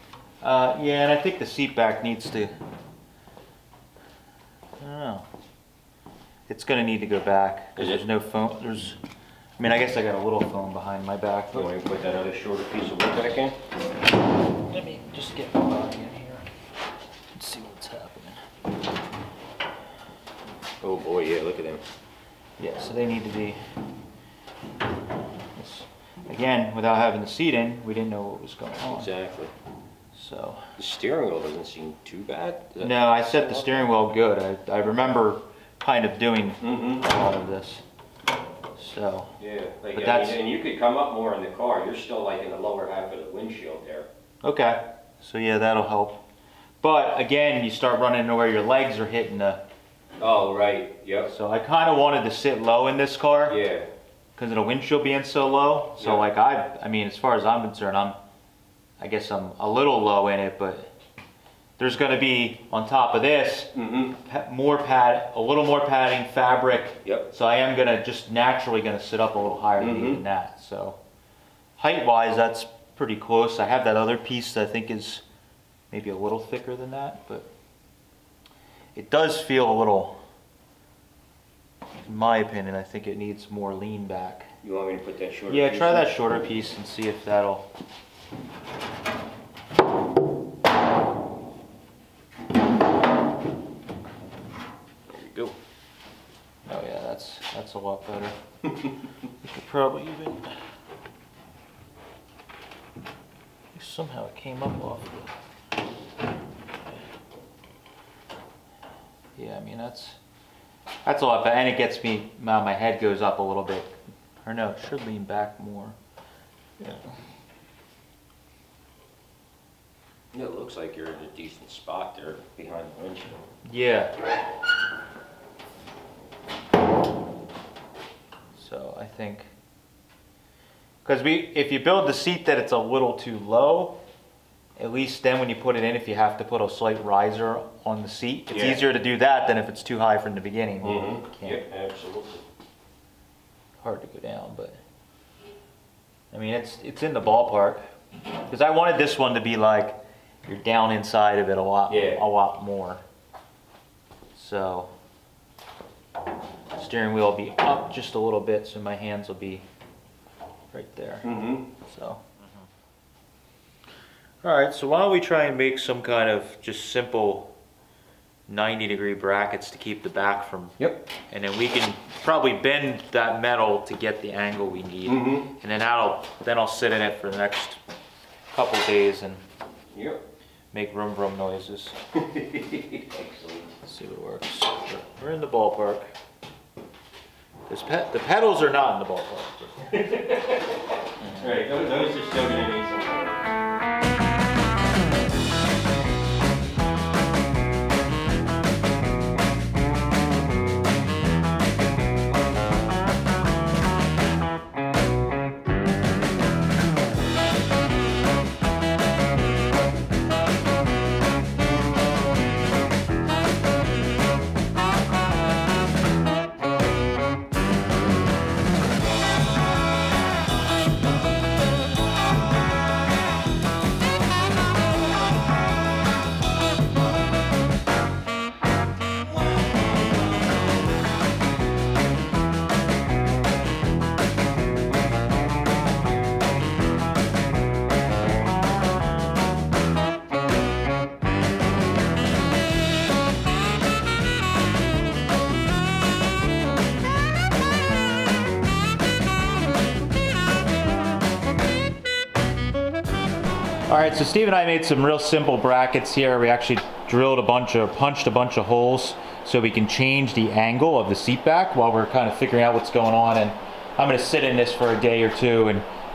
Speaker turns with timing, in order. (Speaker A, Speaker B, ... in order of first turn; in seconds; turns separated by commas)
Speaker A: 0.4-2.5, Speaker A: 4.8-5.3, Speaker A: 6.5-9.0, Speaker B: 7.8-8.0, Speaker A: 9.6-11.7, Speaker B: 11.5-13.6, Speaker A: 14.7-16.5, Speaker A: 17.4-18.4, Speaker B: 20.8-21.8, Speaker A: 22.6-23.6, Speaker A: 25.5-29.1, Speaker B: 28.9-29.5, Speaker A: 30.1-30.8, Speaker B: 30.8-33.9, Speaker A: 32.8-37.8, Speaker B: 36.6-37.0, Speaker A: 38.8-39.3, Speaker B: 39.4-44.1, Speaker A: 39.9-40.4, Speaker A: 44.4-46.2, Speaker A: 46.8-49.6, Speaker B: 50.2-51.3, Speaker A: 51.3-53.6, Speaker B: 53.5-53.9, Speaker A: 54.4-58.2, Speaker B: 56.0-56.3, Speaker A: 59.0-60.9, Speaker A: 61.8-71.0, Speaker B: 63.7-64.1, Speaker B: 69.8-70.2, Speaker A: 71.8-75.2, Speaker A: 75.9-77.5, Speaker A: 78.9-80.2, Speaker A: 82.0-84.5, Speaker B: 84.6-86.1, Speaker A: 85.5-87.7, Speaker B: 95.1-95.5, Speaker A: 96.7-98.4, Speaker A: 99.4-100.5, Speaker A: 103.7-105.2, Speaker A: 109.4-110.2, Speaker A: 111.0-116.0, Speaker A: 116.8-117.1, Speaker B: 120.3-123.5, Speaker A: 123.6-124.1, Speaker A: 128.6-129.5, Speaker A: 131.0-134.0, Speaker A: 134.8-141.6, Speaker B: 138.5-138.8, Speaker B: 140.8-142.4, Speaker A: 143.8-144.8, Speaker A: 146.3-147.8, Speaker A: 148.5-153.0, Speaker B: 151.9-152.2, Speaker A: 154.3-154.9, Speaker A: 156.7-159.6, Speaker A: 160.7-162.2, Speaker B: 161.2-161.6, Speaker A: 164.4-167.5, Speaker A: 168.5-170.8, Speaker A: 171.3-177.8, Speaker B: 175.1-175.5, Speaker A: 178.5-179.4, Speaker B: 179.9-180.2, Speaker A: 180.7-182.0, Speaker B: 182.1-183.7, Speaker A: 183.8-186.1, Speaker A: 187.7-190.0, Speaker B: 189.9-190.8, Speaker A: 191.2-191.5, Speaker B: 191.4-193.4, Speaker A: 253.9-265.9